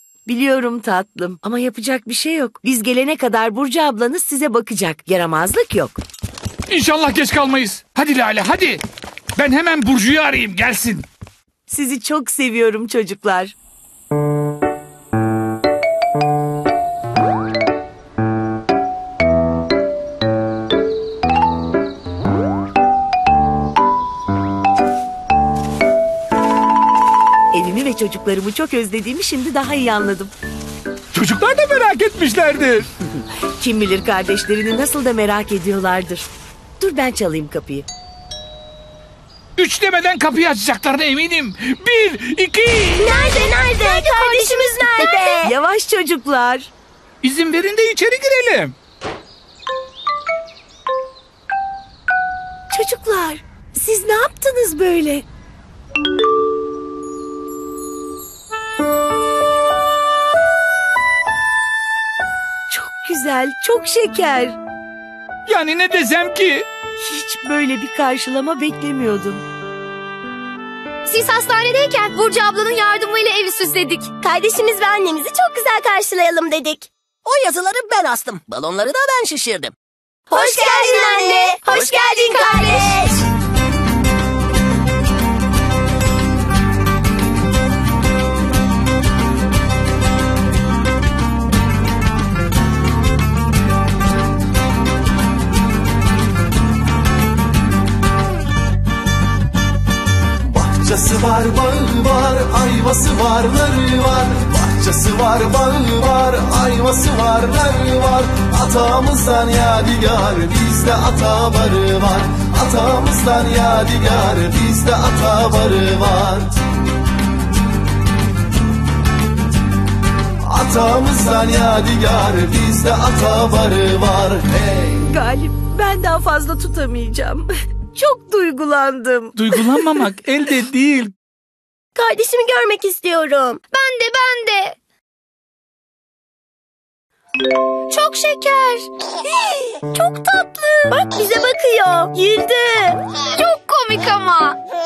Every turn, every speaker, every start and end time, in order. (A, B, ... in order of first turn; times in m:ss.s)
0:00.2-0:06.0 A
0:06.7-0:08.8 B
0:09.4-0:11.1 B
0:11.7-0:13.5 A
0:27.5-0:30.3 A
0:31.1-0:32.9 B
0:33.6-0:36.3 A
0:36.8-0:37.9 A
0:39.6-0:43.1 B
0:43.0-0:45.5 C
0:43.8-0:45.4 D
0:45.0-0:46.7 A
0:47.2-0:48.8 B
0:52.7-0:55.2 A
1:02.7-1:04.6 A
1:05.5-1:06.7 B
1:07.0-1:09.4 A
1:11.0-1:14.1 D
1:14.2-1:16.9 C
1:17.2-1:19.7 E
1:20.3-1:23.2 C
1:20.4-1:22.7 E
1:22.4-1:22.7 D
1:40.5-1:56.6 F
2:00.4-2:04.9 F
2:05.0-2:10.0 A
2:09.4-2:11.1 B
2:12.0-2:13.6 C
2:13.7-2:14.8 D
2:17.9-2:18.9 D
2:20.0-2:20.9 D
2:20.9-2:23.0 C
2:23.3-2:24.6 D